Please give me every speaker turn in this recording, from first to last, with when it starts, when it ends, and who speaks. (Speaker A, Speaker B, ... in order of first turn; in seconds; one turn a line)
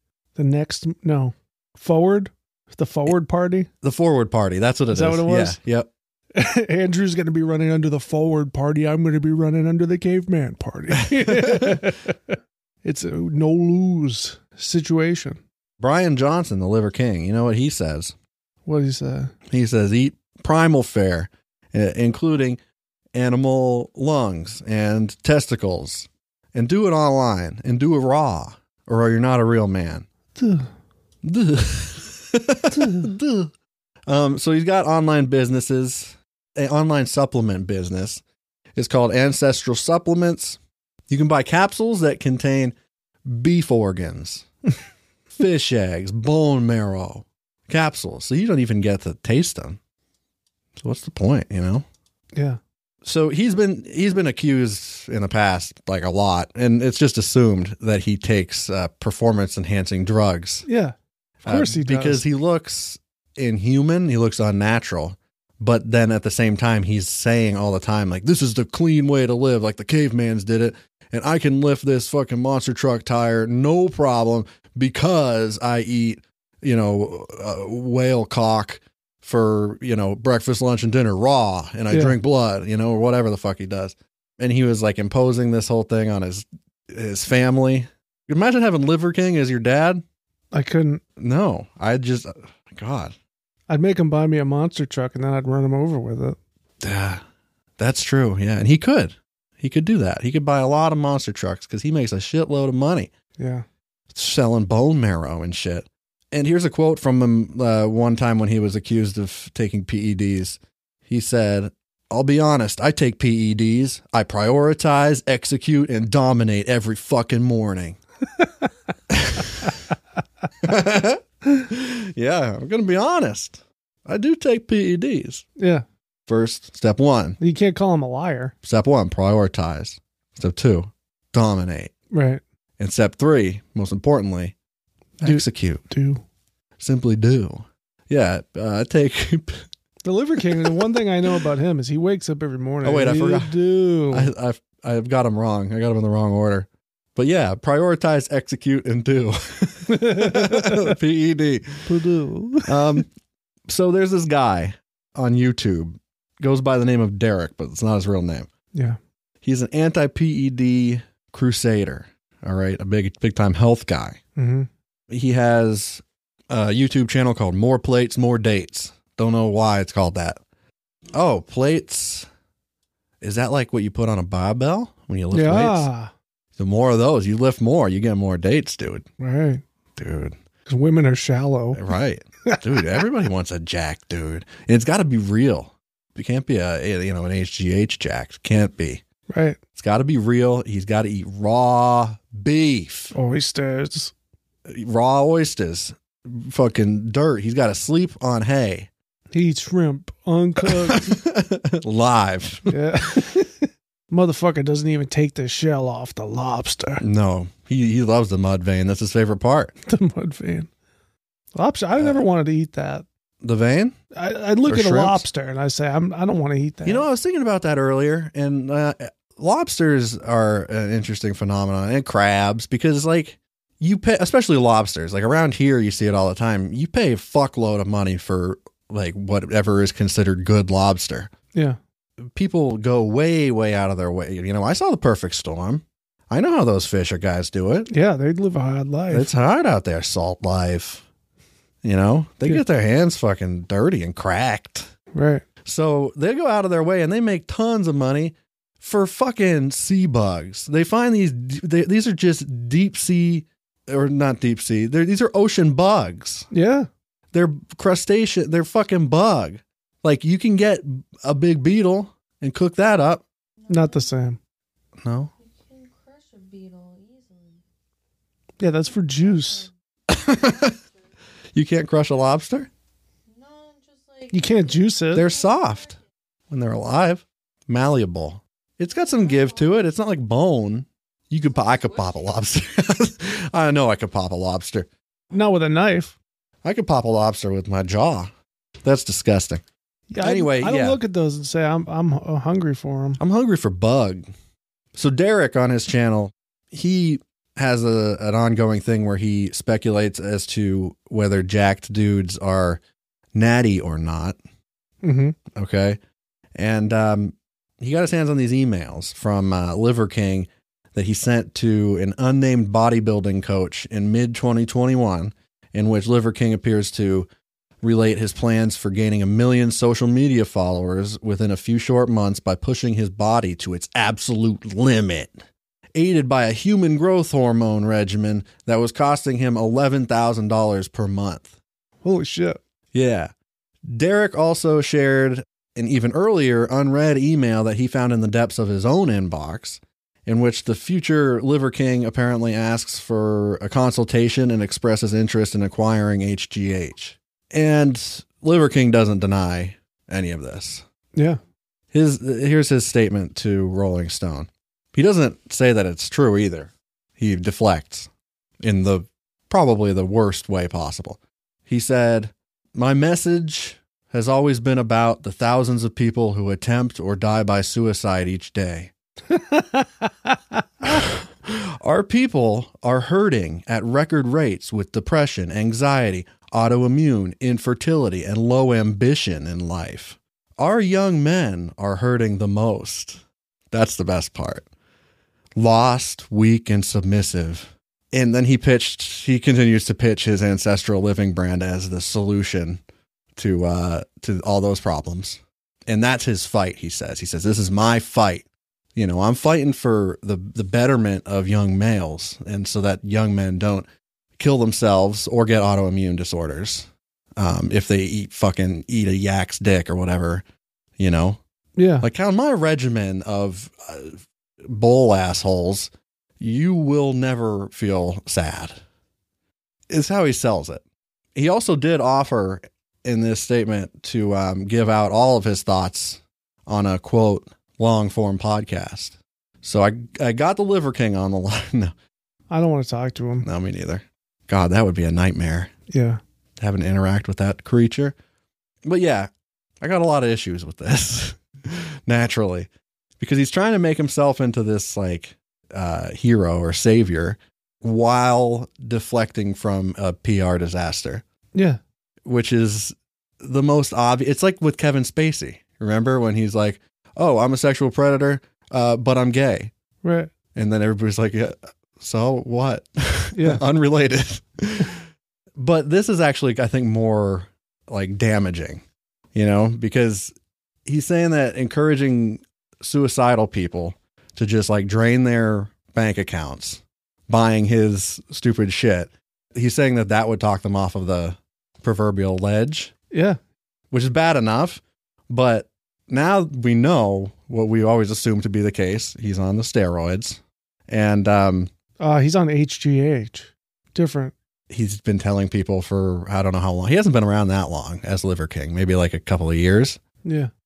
Speaker A: 0.4-3.7
Speaker B: 3.8-5.9
Speaker A: 4.9-5.6
Speaker A: 6.3-15.4
Speaker B: 11.1-11.9
Speaker B: 15.8-18.1
Speaker A: 18.7-19.4
Speaker B: 19.5-22.6
Speaker B: 23.1-30.1
Speaker A: 30.4-30.7
Speaker B: 31.2-33.5
Speaker B: 34.1-38.2
Speaker B: 38.8-42.8
Speaker B: 43.3-44.5
Speaker B: 45.3-49.8
Speaker B: 50.8-51.9
Speaker A: 52.4-52.6
Speaker B: 53.0-60.7
Speaker A: 60.7-62.2
Speaker B: 61.4-90.0
Speaker A: 81.9-82.2
Speaker A: 90.5-91.0
Speaker B: 91.2-93.2
Speaker A: 93.7-96.4
Speaker B: 96.8-97.2
Speaker B: 97.8-103.1
Speaker A: 103.4-103.7
Speaker B: 104.1-118.0
Speaker B: 119.1-119.7
Speaker B: 120.6-125.5
Speaker A: 125.6-125.8
Speaker B: 126.3-127.4
Speaker A: 127.4-128.5
Speaker B: 128.6-131.9
Speaker A: 132.1-132.4
Speaker B: 132.8-134.6
Speaker B: 135.2-135.8
Speaker A: 135.2-136.2
Speaker B: 136.8-139.7
Speaker A: 140.1-144.3
Speaker B: 140.4-140.8
Speaker B: 142.8-143.6
Speaker B: 144.1-151.9
Speaker A: 149.9-151.0
Speaker A: 151.8-153.0
Speaker B: 152.7-153.1
Speaker B: 153.7-158.5
Speaker B: 159.4-164.2
Speaker A: 164.4-164.7
Speaker B: 165.1-170.4
Speaker B: 171.1-172.3
Speaker B: 173.2-175.9
Speaker A: 175.3-176.1
Speaker B: 176.6-179.1
Speaker A: 179.2-179.6
Speaker B: 180.0-180.4
Speaker A: 180.7-181.8
Speaker B: 181.7-189.0
Speaker A: 189.3-189.6
Speaker B: 189.8-193.2
Speaker A: 193.2-194.1
Speaker B: 194.7-198.9
Speaker A: 199.3-201.2
Speaker B: 200.7-202.8
Speaker A: 202.7-207.0
Speaker B: 207.0-209.7
Speaker A: 209.8-210.7
Speaker A: 211.5-213.1
Speaker B: 213.4-213.9
Speaker A: 214.2-217.1
Speaker B: 214.7-215.3
Speaker B: 216.8-231.3
Speaker B: 232.2-237.9
Speaker A: 237.9-239.3
Speaker B: 239.1-241.1
Speaker B: 241.8-244.9
Speaker A: 245.1-245.4
Speaker B: 245.6-256.5
Speaker A: 256.5-256.9
Speaker B: 257.3-263.2
Speaker C: 263.6-264.2
Speaker A: 263.7-264.4
Speaker B: 265.0-265.3
Speaker C: 265.4-267.6
Speaker A: 268.6-269.7
Speaker C: 268.9-270.9
Speaker B: 270.1-270.8
Speaker B: 271.5-272.7
Speaker C: 273.3-276.0
Speaker A: 274.3-275.3
Speaker B: 275.1-275.9
Speaker B: 276.5-284.9
Speaker C: 278.9-279.8
Speaker C: 281.5-282.1
Speaker A: 285.3-286.2
Speaker B: 286.6-288.3
Speaker B: 288.8-289.6
Speaker A: 290.1-293.2
Speaker B: 290.2-291.0
Speaker B: 293.2-294.2
Speaker B: 294.9-302.8
Speaker B: 303.3-304.4
Speaker A: 305.0-305.4
Speaker B: 305.5-306.0
Speaker B: 306.6-317.3
Speaker B: 317.8-325.4
Speaker B: 325.9-331.5
Speaker A: 332.0-332.6
Speaker B: 332.9-333.3
Speaker B: 333.9-350.8
Speaker B: 351.9-358.1
Speaker B: 358.6-368.9
Speaker A: 369.3-371.1
Speaker B: 370.8-384.7
Speaker B: 385.6-392.8
Speaker B: 393.4-410.4
Speaker B: 411.0-411.4
Speaker A: 411.8-412.1
Speaker B: 412.0-418.8
Speaker B: 419.9-420.8
Speaker B: 421.4-431.9
Speaker A: 432.5-433.5
Speaker B: 433.4-435.7
Speaker A: 435.9-436.2
Speaker B: 436.6-438.1
Speaker B: 438.9-439.3
Speaker B: 439.8-451.2
Speaker A: 451.5-451.8
Speaker B: 452.2-459.7
Speaker A: 460.0-460.3
Speaker B: 460.5-465.0
Speaker A: 463.4-463.6
Speaker B: 465.6-470.3
Speaker B: 470.9-482.9
Speaker A: 483.1-483.4
Speaker B: 483.9-491.7
Speaker A: 492.0-494.3
Speaker B: 494.7-500.0
Speaker A: 500.2-500.5